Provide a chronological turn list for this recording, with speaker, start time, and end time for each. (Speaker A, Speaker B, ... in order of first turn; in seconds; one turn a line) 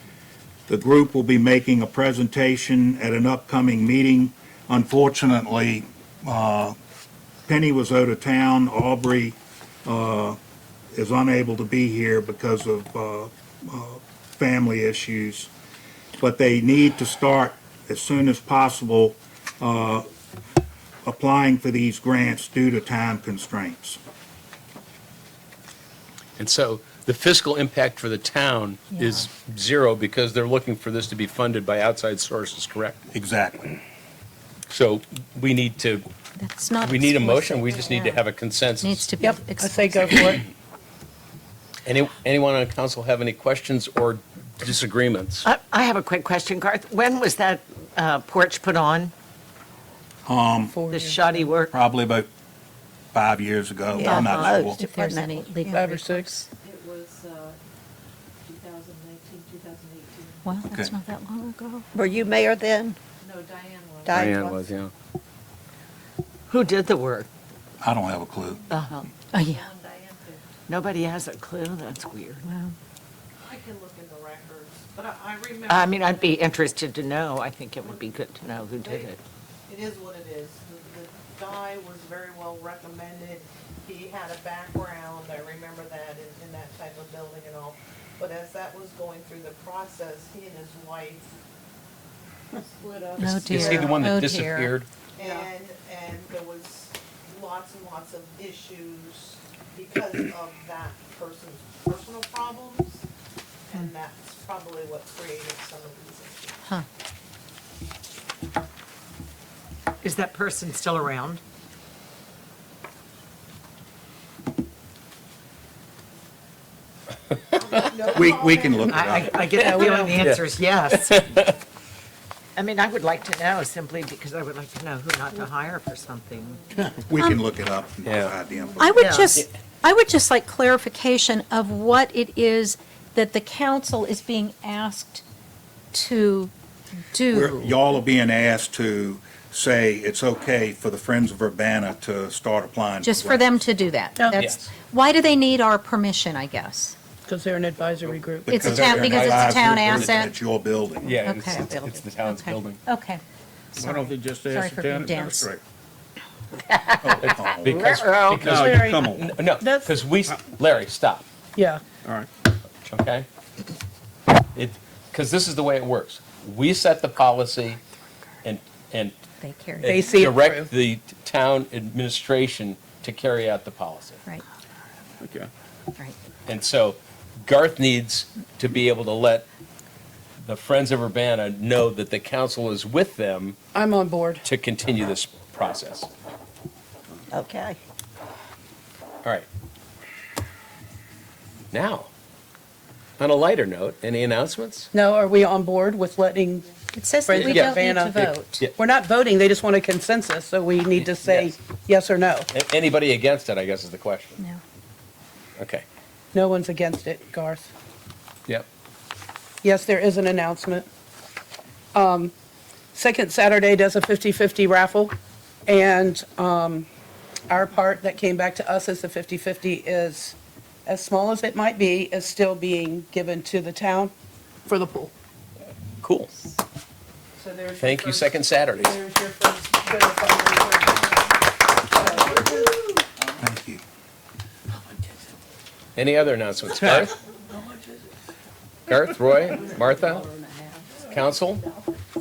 Speaker A: 0.7-6.8
Speaker A: 7.5-10.4
Speaker A: 10.9-15.5
Speaker A: 16.2-20.1
Speaker A: 21.1-24.0
Speaker B: 26.4-33.0
Speaker C: 28.9-29.2
Speaker A: 33.1-33.7
Speaker B: 34.7-36.0
Speaker C: 36.4-38.2
Speaker B: 36.8-39.1
Speaker C: 38.8-40.3
Speaker D: 39.2-40.4
Speaker B: 41.9-45.5
Speaker E: 45.5-49.1
Speaker A: 50.3-50.9
Speaker D: 50.7-51.5
Speaker E: 50.9-51.7
Speaker A: 51.7-52.3
Speaker A: 53.1-54.9
Speaker F: 54.0-55.7
Speaker C: 54.1-56.5
Speaker D: 55.7-56.3
Speaker G: 58.7-59.1
Speaker C: 60.4-61.9
Speaker A: 60.7-61.0
Speaker F: 61.9-63.0
Speaker F: 64.1-64.6
Speaker B: 64.1-64.9
Speaker E: 66.5-67.3
Speaker A: 67.8-68.7
Speaker E: 68.7-69.1
Speaker C: 69.3-69.7
Speaker E: 70.7-72.7
Speaker G: 73.4-76.7
Speaker E: 75.7-79.2
Speaker G: 78.7-79.2
Speaker G: 79.7-91.3
Speaker G: 92.6-94.0
Speaker C: 93.2-94.7
Speaker B: 93.2-94.9
Speaker G: 95.2-103.0
Speaker D: 95.2-95.5
Speaker G: 103.7-106.6
Speaker E: 110.0-111.4
Speaker G: 117.5-118.9
Speaker A: 118.1-119.4
Speaker D: 118.9-120.1
Speaker E: 118.9-121.2
Speaker B: 120.1-121.5
Speaker E: 122.6-126.6
Speaker A: 126.8-129.0
Speaker C: 127.2-127.4
Speaker B: 128.1-128.3
Speaker C: 128.8-135.2
Speaker E: 129.0-129.4
Speaker C: 135.9-136.5
Speaker C: 137.1-137.7
Speaker A: 137.3-143.5
Speaker C: 143.0-147.0
Speaker B: 144.4-144.7
Speaker D: 147.3-148.7
Speaker A: 148.4-151.3
Speaker C: 148.5-150.3
Speaker B: 148.7-150.3
Speaker B: 151.0-152.8
Speaker C: 151.2-153.2
Speaker C: 153.7-155.5
Speaker H: 153.8-155.6
Speaker E: 156.7-158.5
Speaker A: 157.0-157.7
Speaker B: 157.2-161.2
Speaker H: 158.4-159.3
Speaker D: 158.5-159.0
Speaker D: 159.6-160.0
Speaker D: 161.6-161.8
Speaker B: 162.9-163.3
Speaker B: 164.6-167.8
Speaker B: 168.4-169.2
Speaker C: 169.4-170.2
Speaker B: 169.8-174.2
Speaker D: 169.8-170.7
Speaker H: 175.2-175.5
Speaker B: 176.5-179.5
Speaker B: 180.4-183.6
Speaker D: 183.7-184.4
Speaker B: 184.4-186.1
Speaker F: 187.3-187.8
Speaker B: 191.7-192.1
Speaker B: 193.2-194.9
Speaker D: 194.9-196.7
Speaker C: 196.9-198.7
Speaker D: 197.2-202.5
Speaker B: 197.5-197.8
Speaker B: 201.0-201.5
Speaker B: 202.5-204.4
Speaker B: 205.6-205.8
Speaker D: 206.3-207.7
Speaker D: 209.6-210.9
Speaker D: 211.9-212.3
Speaker D: 212.9-215.1
Speaker D: 215.7-216.9
Speaker D: 217.5-220.3
Speaker D: 220.9-224.1
Speaker D: 224.7-225.1
Speaker B: 226.0-226.3
Speaker D: 227.4-231.3
Speaker B: 227.8-229.0
Speaker D: 231.9-232.7
Speaker A: 233.4-233.8
Speaker B: 236.0-237.1
Speaker B: 238.9-240.3
Speaker B: 241.1-241.6